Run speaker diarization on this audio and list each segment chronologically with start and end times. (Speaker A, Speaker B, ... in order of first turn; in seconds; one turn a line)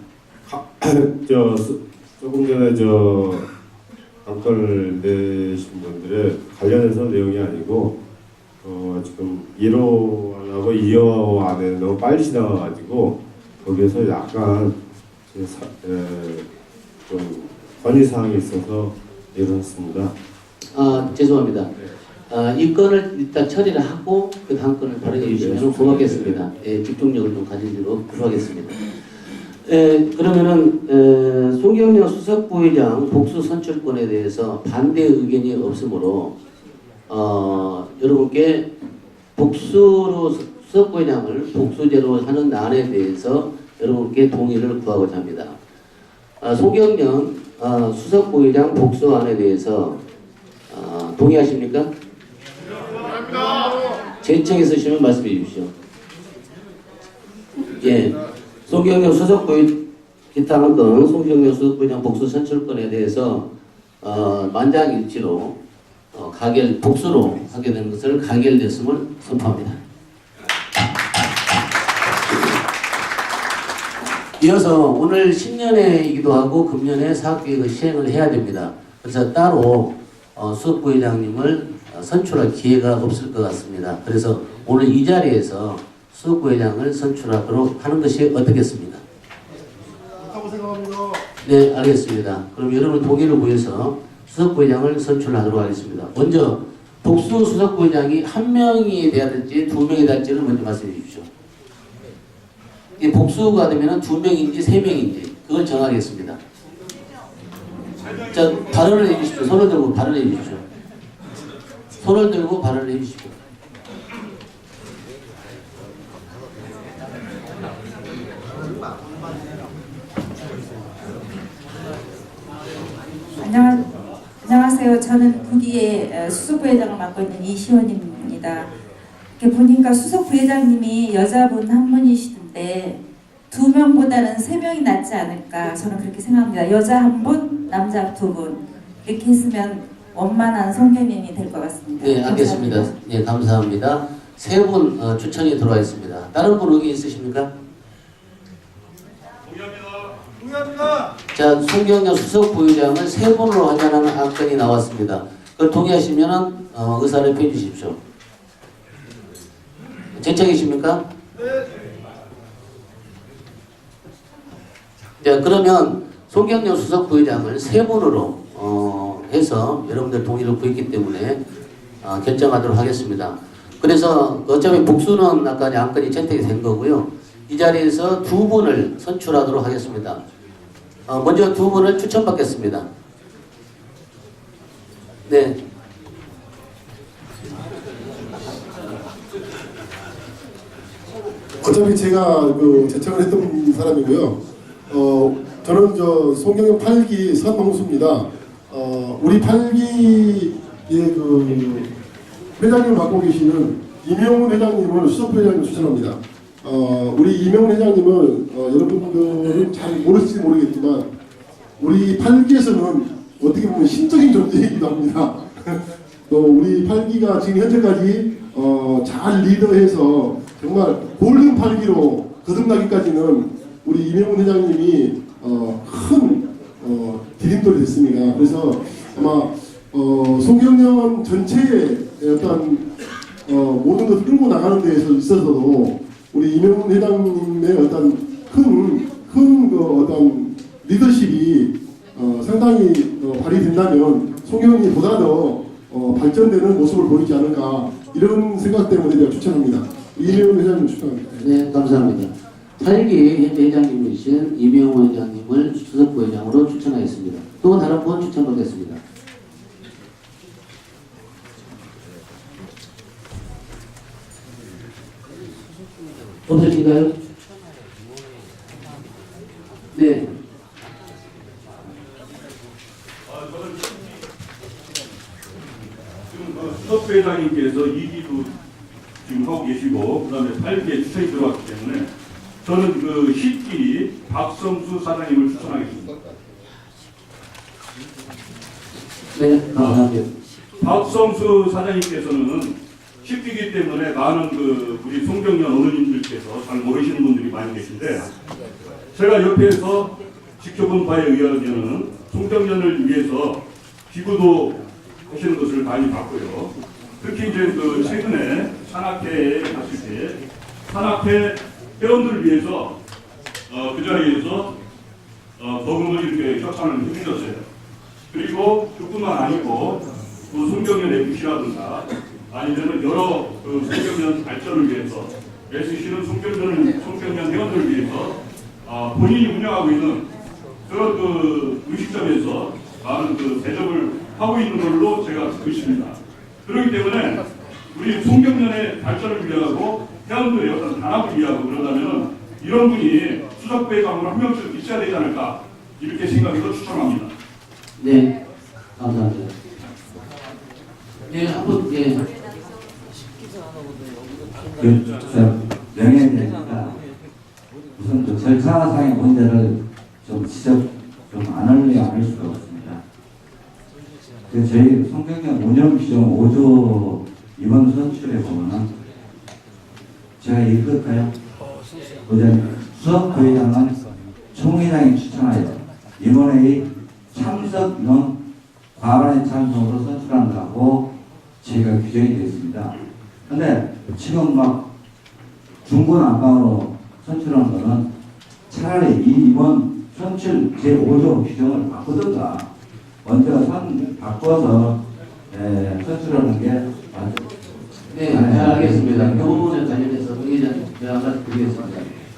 Speaker A: 0.5-3.5
Speaker A: 4.2-8.0
Speaker A: 8.6-14.8
Speaker A: 15.3-16.5
Speaker A: 17.1-20.1
Speaker B: 20.7-21.7
Speaker B: 22.3-28.8
Speaker A: 25.1-26.4
Speaker B: 29.6-36.4
Speaker B: 37.1-38.7
Speaker B: 39.4-45.6
Speaker B: 46.4-50.0
Speaker B: 50.7-51.9
Speaker B: 53.3-55.7
Speaker B: 57.6-58.2
Speaker B: 58.7-59.8
Speaker B: 60.3-63.5
Speaker B: 64.0-65.5
Speaker B: 66.1-69.8
Speaker B: 74.4-89.0
Speaker C: 90.2-91.2
Speaker B: 91.4-101.3
Speaker B: 103.0-106.4
Speaker B: 108.3-110.6
Speaker B: 112.0-113.3
Speaker D: 123.4-123.8
Speaker D: 124.4-128.7
Speaker D: 129.4-133.0
Speaker D: 133.5-142.9
Speaker B: 142.0-147.5
Speaker E: 149.5-150.0
Speaker B: 151.3-158.0
Speaker B: 160.1-161.0
Speaker B: 165.2-171.4
Speaker B: 172.0-180.2
Speaker B: 181.1-182.8
Speaker B: 185.3-185.6
Speaker C: 191.6-194.4
Speaker C: 194.9-201.9
Speaker C: 202.6-211.1
Speaker C: 211.8-232.9
Speaker C: 233.5-251.5
Speaker B: 251.4-259.0
Speaker B: 266.5-267.1
Speaker B: 269.9-270.3
Speaker E: 273.3-274.1
Speaker E: 276.3-278.5
Speaker E: 279.2-282.1
Speaker E: 282.6-286.1
Speaker B: 289.3-290.3
Speaker E: 290.8-298.3
Speaker E: 299.1-312.9
Speaker E: 313.7-314.7
Speaker E: 315.6-317.6
Speaker E: 318.3-330.2
Speaker E: 330.9-337.4
Speaker E: 337.9-347.3
Speaker B: 348.0-348.3
Speaker B: 349.0-349.5
Speaker B: 351.3-352.2
Speaker F: 354.8-357.0
Speaker F: 358.0-363.0
Speaker F: 364.5-368.9
Speaker F: 370.4-371.3
Speaker F: 372.3-374.0
Speaker F: 374.5-378.4
Speaker F: 378.9-383.0
Speaker F: 383.5-384.9
Speaker F: 385.9-388.1
Speaker F: 388.7-392.7
Speaker F: 393.2-397.4
Speaker B: 398.1-402.1
Speaker F: 398.3-399.6